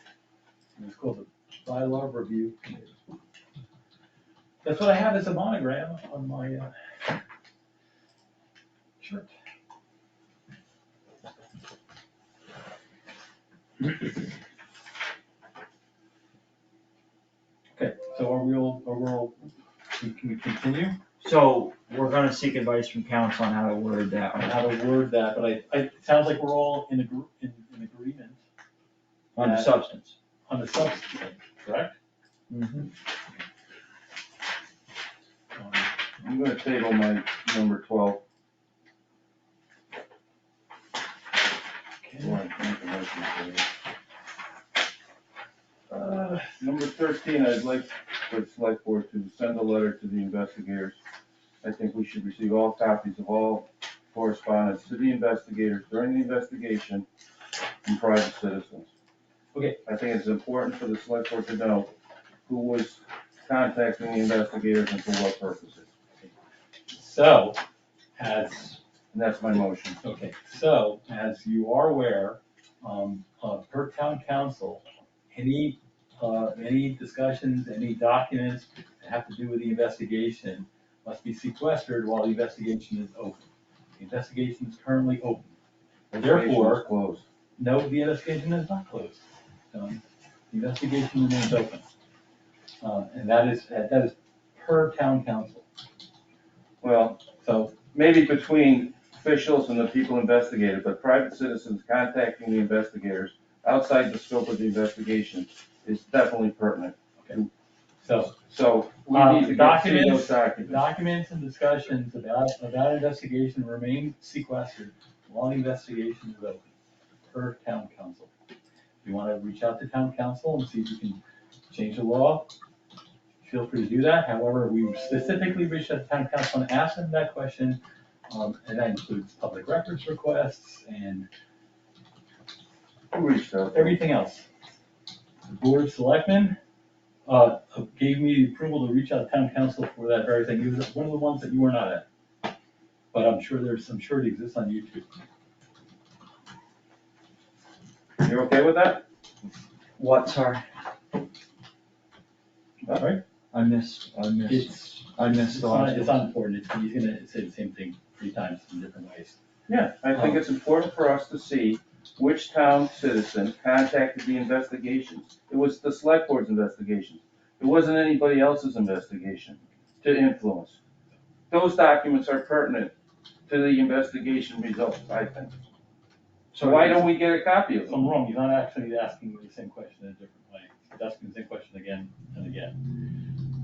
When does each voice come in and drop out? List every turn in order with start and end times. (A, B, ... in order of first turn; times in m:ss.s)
0:00.8-0:03.0 A
0:04.6-0:06.7 A
0:09.0-0:09.3 A
0:17.8-0:21.0 A
0:21.2-0:24.5 B
0:24.4-0:28.4 A
0:29.4-0:30.2 B
0:29.4-0:29.8 A
0:30.5-0:32.0 A
0:32.5-0:32.9 B
0:35.6-0:35.9 A
0:36.2-0:38.2 C
0:42.0-0:42.4 A
0:42.2-0:43.6 C
0:45.9-0:51.0 C
0:51.6-0:57.1 C
0:57.8-0:58.9 C
0:59.8-1:01.9 C
1:02.5-1:05.9 C
1:06.9-1:07.6 A
1:08.2-1:08.8 A
1:09.1-1:10.0 C
1:10.0-1:25.5 A
1:26.1-1:27.2 C
1:26.2-1:26.8 A
1:27.6-1:31.8 A
1:32.8-1:35.6 A
1:36.8-1:37.2 C
1:37.4-1:37.8 A
1:37.9-1:47.5 C
1:48.0-1:48.4 A
1:48.5-1:50.8 C
1:49.1-1:56.7 A
1:57.3-1:58.3 A
1:59.0-2:02.5 A
2:03.4-2:11.3 A
2:13.1-2:14.0 C
2:13.7-2:14.5 A
2:15.5-2:16.6 A
2:17.3-2:22.0 A
2:23.1-2:25.1 A
2:28.2-2:29.0 C
2:30.0-2:30.6 B
2:33.0-2:33.2 A
2:33.5-2:36.3 B
2:34.5-2:39.4 A
2:39.7-2:50.8 C
2:51.5-2:52.9 C
2:53.5-2:55.6 C
2:56.5-2:57.1 B
2:56.6-2:58.0 C
2:57.9-3:02.8 A